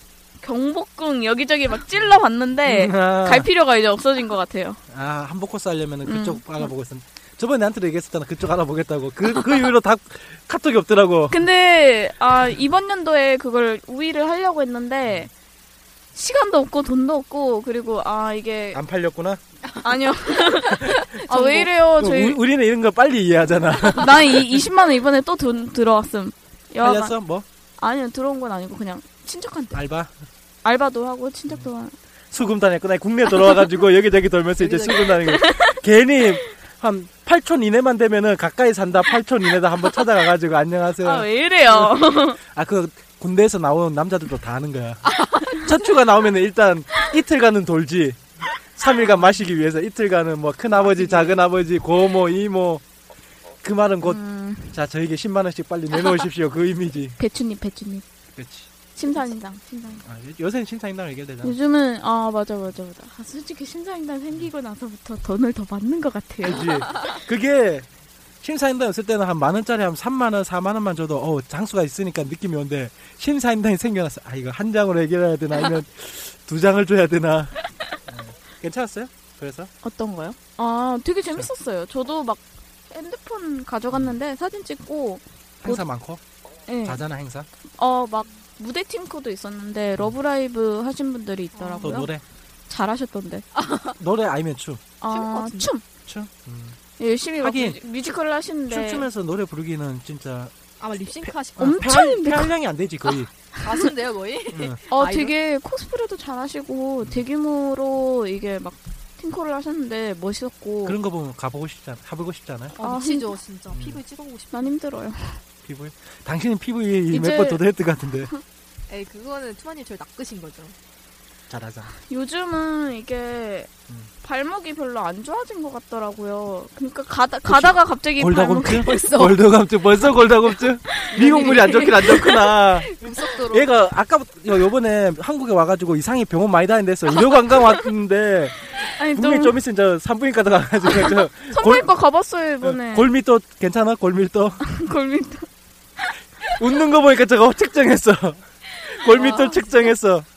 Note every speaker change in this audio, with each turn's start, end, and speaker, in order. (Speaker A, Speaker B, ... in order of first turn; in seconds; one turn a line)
Speaker A: 0.4-4.8
Speaker B: 2.6-3.5
Speaker B: 4.9-11.4
Speaker A: 6.0-6.7
Speaker A: 11.3-15.3
Speaker A: 16.1-18.8
Speaker B: 18.7-19.4
Speaker A: 19.8-22.4
Speaker B: 20.9-24.6
Speaker A: 23.9-27.1
Speaker B: 26.8-27.4
Speaker A: 27.8-29.8
Speaker B: 29.7-30.1
Speaker A: 30.6-31.9
Speaker B: 32.3-48.2
Speaker C: 34.6-35.1
Speaker A: 35.3-35.7
Speaker A: 41.0-42.4
Speaker C: 45.0-45.7
Speaker B: 48.8-52.8
Speaker C: 50.7-51.4
Speaker B: 53.6-54.2
Speaker A: 54.0-54.8
Speaker B: 54.7-57.2
Speaker A: 57.2-58.0
Speaker B: 58.3-58.7
Speaker A: 58.9-60.0
Speaker B: 60.0-61.5
Speaker A: 61.4-67.1
Speaker B: 66.4-67.9
Speaker B: 68.4-79.7
Speaker A: 79.8-85.8
Speaker B: 83.9-84.2
Speaker B: 85.6-86.2
Speaker A: 86.7-87.0
Speaker B: 86.8-87.5
Speaker A: 87.8-92.1
Speaker C: 91.5-92.0
Speaker B: 91.8-92.2
Speaker A: 92.7-93.5
Speaker C: 93.5-94.0
Speaker B: 94.0-94.8
Speaker A: 95.0-95.8
Speaker C: 95.1-95.7
Speaker B: 96.0-96.8
Speaker A: 97.0-99.1
Speaker B: 97.4-97.8
Speaker B: 98.7-100.5
Speaker C: 100.8-101.9
Speaker B: 101.2-103.3
Speaker A: 101.6-102.5
Speaker C: 103.6-105.3
Speaker B: 104.5-104.8
Speaker A: 104.9-111.0
Speaker B: 110.8-112.8
Speaker C: 112.8-114.7
Speaker A: 112.8-113.4
Speaker B: 113.7-114.0
Speaker A: 114.5-115.4
Speaker B: 115.6-118.3
Speaker A: 117.1-117.6
Speaker C: 118.9-120.7
Speaker B: 121.5-121.9
Speaker A: 122.0-123.7
Speaker A: 124.2-129.0
Speaker B: 127.5-141.9
Speaker C: 128.8-129.4
Speaker A: 130.9-132.4
Speaker C: 131.1-133.7
Speaker A: 138.9-139.6
Speaker A: 141.0-143.1
Speaker B: 142.6-144.6
Speaker A: 144.7-145.5
Speaker B: 146.5-150.2
Speaker A: 149.0-149.6